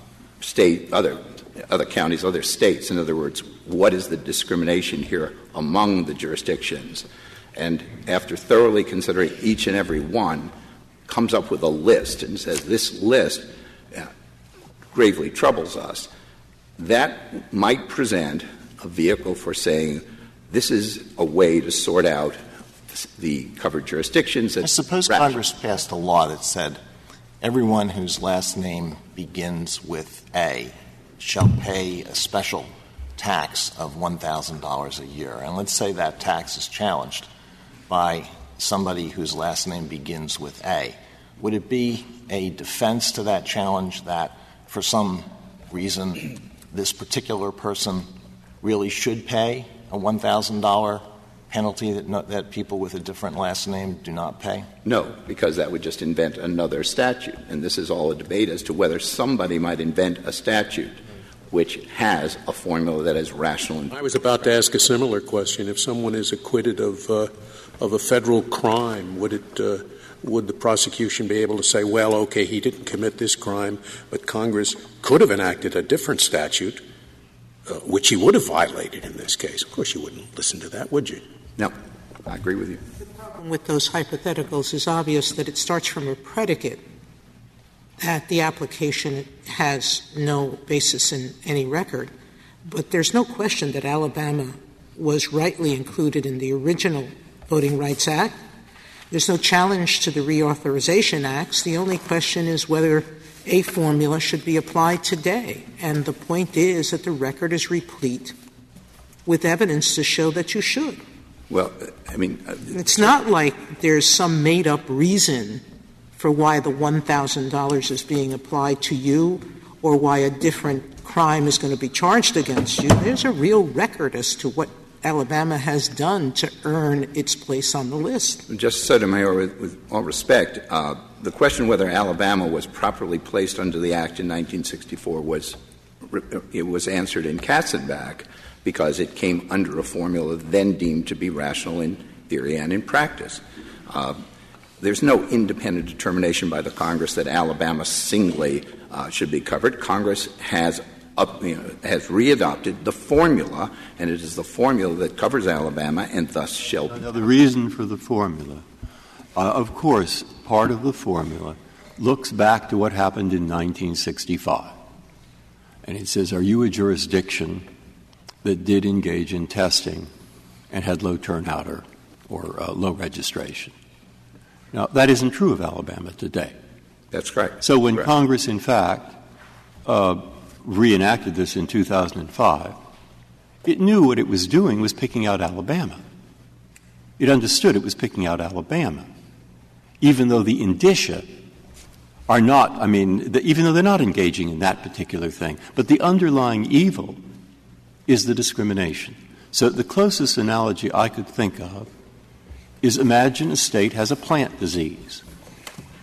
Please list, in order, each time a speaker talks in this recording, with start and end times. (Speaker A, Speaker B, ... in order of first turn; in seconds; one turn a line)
Speaker A: 0.4-10.5
Speaker A: 11.1-14.1
Speaker A: 14.9-16.1
Speaker A: 16.8-22.4
Speaker A: 22.9-25.4
Speaker B: 24.6-26.8
Speaker B: 27.4-37.3
Speaker B: 37.9-48.1
Speaker B: 48.6-54.7
Speaker A: 54.9-61.0
Speaker A: 61.5-64.0
Speaker C: 63.9-76.8
Speaker C: 77.7-81.2
Speaker A: 82.3-82.8
Speaker D: 83.2-86.8
Speaker D: 88.0-92.1
Speaker D: 92.7-98.4
Speaker D: 99.1-108.4
Speaker D: 109.3-111.0
Speaker A: 111.5-112.9
Speaker D: 112.7-115.6
Speaker D: 116.2-128.4
Speaker A: 128.5-144.2
Speaker A: 144.8-157.1
Speaker E: 157.0-158.6
Speaker E: 159.4-164.8
Speaker E: 165.8-167.7
Speaker E: 168.4-170.1
Speaker E: 170.7-173.7
Speaker E: 174.7-176.5
Speaker A: 177.1-178.1
Speaker E: 177.6-179.2
Speaker E: 179.8-182.8
Speaker E: 183.6-186.0
Speaker E: 187.2-189.1
Speaker E: 190.0-191.3
Speaker E: 192.3-197.2
Speaker E: 198.1-201.9
Speaker E: 202.8-205.2